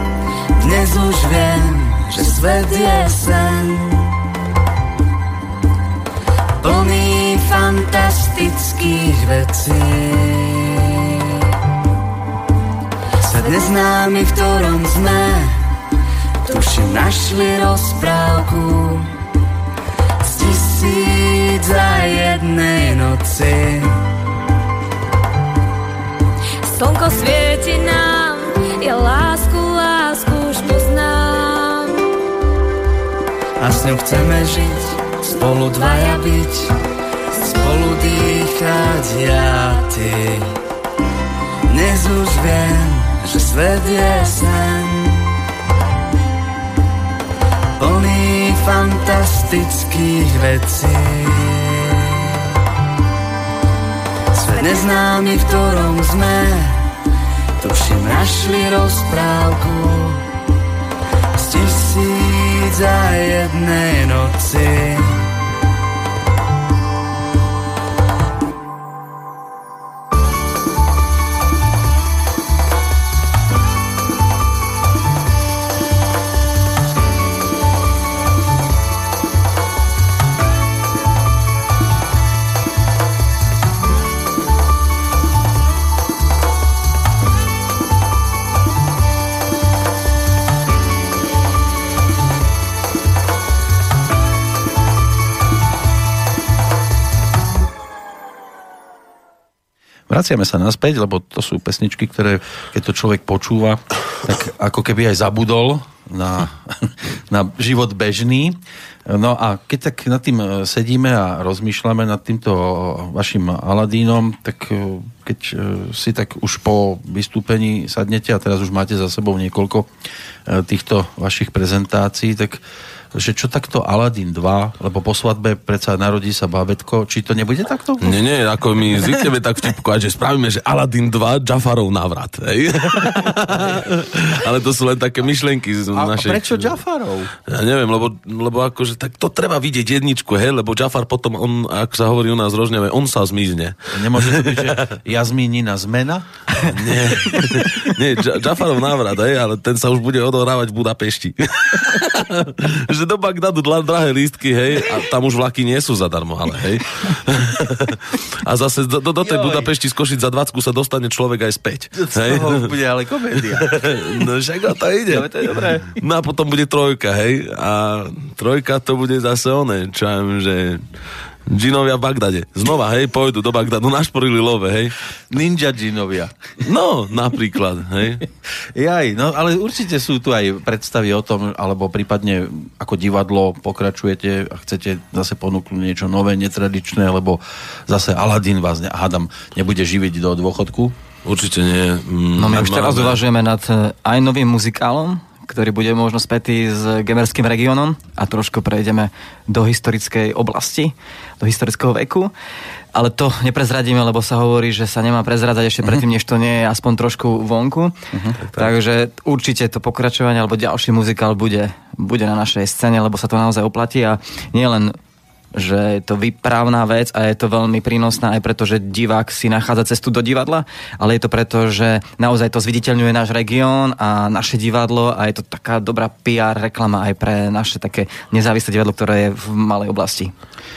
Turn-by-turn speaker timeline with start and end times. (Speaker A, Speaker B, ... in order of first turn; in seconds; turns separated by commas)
Speaker A: 0.6-4.1, Speaker A: 6.6-11.2, Speaker A: 13.2-15.6, Speaker A: 16.4-19.1, Speaker A: 20.2-24.0, Speaker B: 26.6-32.1, Speaker A: 33.6-36.7, Speaker A: 37.4-40.6, Speaker A: 41.7-45.3, Speaker A: 47.8-52.4, Speaker A: 54.3-56.9, Speaker A: 57.6-60.2, Speaker A: 61.4-65.3, Speaker C: 100.1-119.9, Speaker C: 120.5-122.6, Speaker C: 123.1-128.2, Speaker D: 128.0-136.8, Speaker C: 135.9-137.3, Speaker D: 137.5-144.9, Speaker C: 143.9-146.3, Speaker D: 146.7-162.7, Speaker C: 159.2-159.7, Speaker C: 162.0-164.3, Speaker D: 163.5-170.8, Speaker E: 165.1-165.8, Speaker D: 171.5-174.9, Speaker C: 175.3-176.3, Speaker D: 176.6-178.2, Speaker C: 178.8-190.9, Speaker D: 191.2-193.2, Speaker E: 192.4-202.3, Speaker E: 202.9-207.9, Speaker C: 208.1-208.4, Speaker D: 208.4-208.7, Speaker E: 208.6-215.0, Speaker E: 215.5-230.3